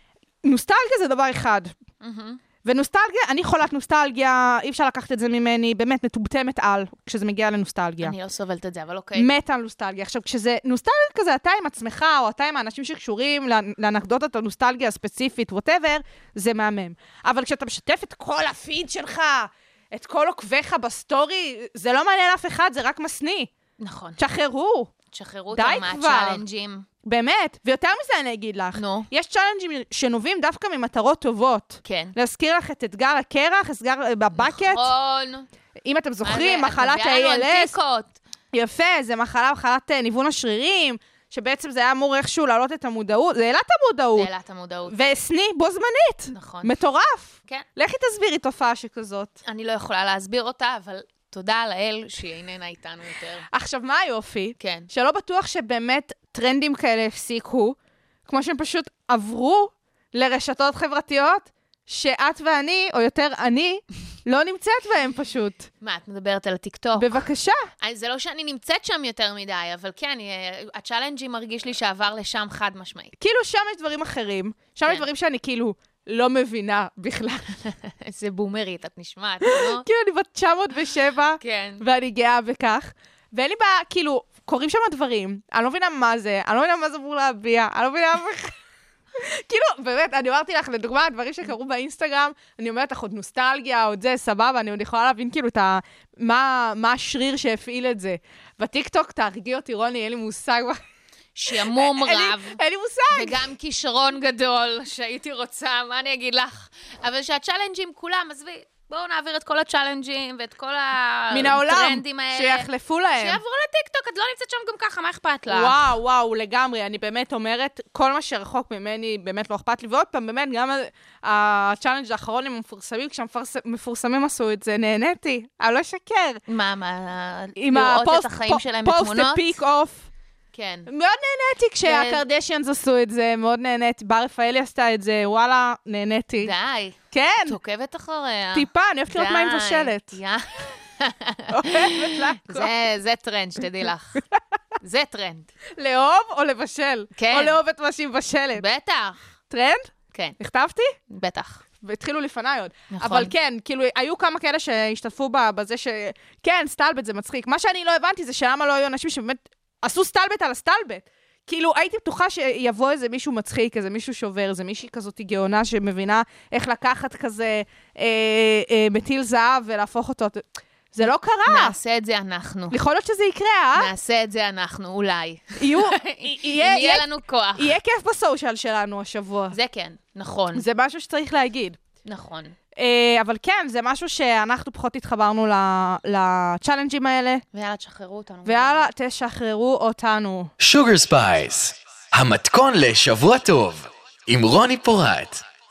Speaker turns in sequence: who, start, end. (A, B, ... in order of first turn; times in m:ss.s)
0:00.4-0:01.7 A
0:02.0-0:02.4 B
0:02.6-0:08.1 A
0:08.0-0:09.3 B
0:09.2-0:23.5 A
0:23.8-0:24.2 B
0:24.2-0:24.9 A
0:25.1-0:26.9 B
0:25.5-0:26.4 A
0:27.0-0:34.9 A
0:28.7-0:29.1 B
0:31.8-0:32.1 B
0:34.4-0:35.5 B
0:35.8-0:37.7 A
0:36.2-0:38.2 B
0:38.5-0:44.3 A
0:44.1-0:45.0 B
0:44.9-0:49.4 A
0:46.3-0:46.7 B
0:49.4-0:53.4 B
0:53.5-1:05.7 A
0:54.6-0:54.9 B
1:05.8-1:07.2 B
1:07.0-1:07.6 A
1:07.8-1:13.1 B
1:13.2-1:17.6 A
1:17.6-1:19.8 B
1:19.4-1:28.5 A
1:21.4-1:21.8 B
1:29.1-1:40.8 A
1:41.3-1:42.6 B
1:41.5-1:43.4 A
1:43.1-1:55.8 B
1:51.3-1:53.4 A
1:55.5-2:06.4 A
2:06.5-2:09.6 B
2:07.6-2:10.1 A
2:10.5-2:10.9 B
2:10.9-2:16.5 A
2:11.8-2:12.2 B
2:16.4-2:24.2 B
2:17.1-2:17.6 A
2:18.5-2:20.2 A
2:21.5-2:22.7 A
2:24.8-2:25.5 B
2:25.7-2:28.6 A
2:27.1-2:27.6 B
2:28.5-2:29.2 B
2:29.5-2:31.0 A
2:31.1-2:31.6 B
2:31.8-2:51.8 A
2:32.9-2:33.3 B
2:51.4-2:52.8 B
2:52.7-2:53.9 A
2:53.7-2:57.7 B
2:55.6-2:59.6 A
2:59.5-3:00.6 B
3:00.5-3:01.8 A
3:02.0-3:02.6 B
3:02.8-3:07.4 A
3:07.5-3:08.9 B
3:08.4-3:10.5 A
3:10.6-3:15.4 C